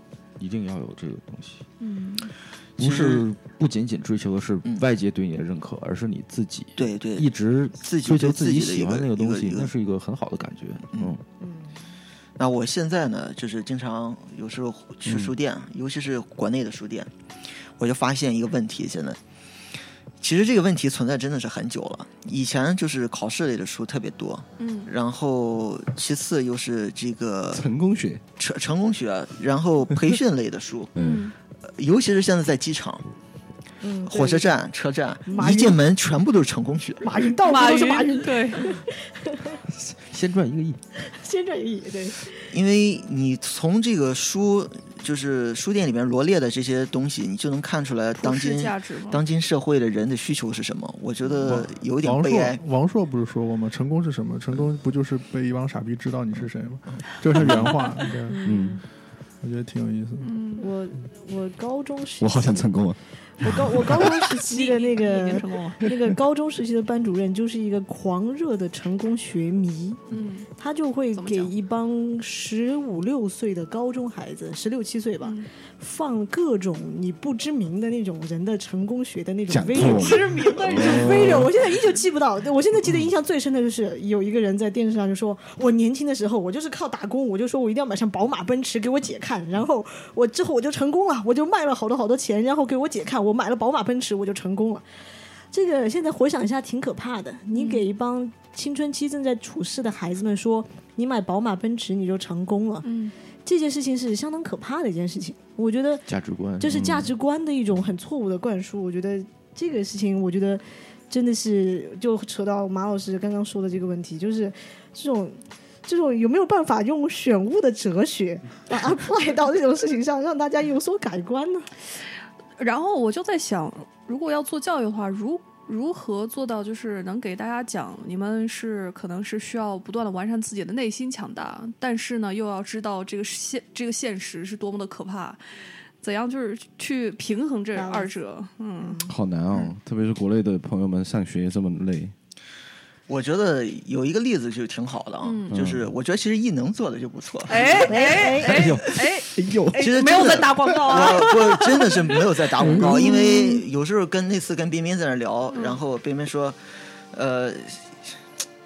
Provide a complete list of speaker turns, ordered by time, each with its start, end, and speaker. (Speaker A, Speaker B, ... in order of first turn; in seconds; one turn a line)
Speaker A: 0.4-1.6
Speaker B: 1.8-2.3
Speaker A: 2.8-11.2
Speaker C: 2.8-3.3
Speaker C: 6.8-9.7
Speaker D: 11.4-11.8
Speaker C: 12.4-17.1
Speaker E: 15.1-15.3
Speaker C: 17.8-19.2
Speaker C: 20.2-27.6
Speaker B: 24.6-24.9
Speaker E: 27.5-28.2
Speaker C: 28.4-30.9
Speaker E: 30.9-31.3
Speaker B: 31.0-31.3
Speaker C: 31.7-33.0
Speaker D: 33.8-34.5
Speaker C: 34.1-37.1
Speaker D: 35.2-35.8
Speaker D: 37.0-39.6
Speaker B: 37.4-38.8
Speaker A: 39.7-40.8
Speaker D: 41.0-42.5
Speaker C: 42.5-52.6
Speaker B: 48.2-49.2
Speaker F: 51.5-58.4
Speaker D: 58.2-58.8
Speaker E: 58.4-58.8
Speaker F: 59.4-60.4
Speaker B: 60.2-60.7
Speaker D: 60.6-62.7
Speaker E: 62.2-63.8
Speaker D: 63.4-94.8
Speaker B: 64.1-66.0
Speaker B: 70.1-70.5
Speaker B: 71.1-71.5
Speaker B: 75.2-75.5
Speaker E: 79.5-81.5
Speaker B: 79.7-81.5
Speaker D: 95.5-106.1
Speaker B: 97.5-97.9
Speaker B: 102.8-103.1
Speaker A: 106.1-106.8
Speaker D: 106.6-121.7
Speaker E: 106.7-107.1
Speaker B: 122.6-135.4
Speaker B: 136.0-139.0
Speaker D: 137.7-138.1
Speaker D: 138.8-139.2
Speaker E: 139.1-142.1
Speaker C: 143.1-148.0
Speaker B: 145.2-145.6
Speaker E: 145.5-145.9
Speaker B: 147.5-153.5
Speaker D: 147.5-148.8
Speaker E: 148.4-151.0
Speaker C: 149.8-156.6
Speaker E: 152.6-153.2
Speaker B: 155.5-155.8
Speaker C: 157.1-158.0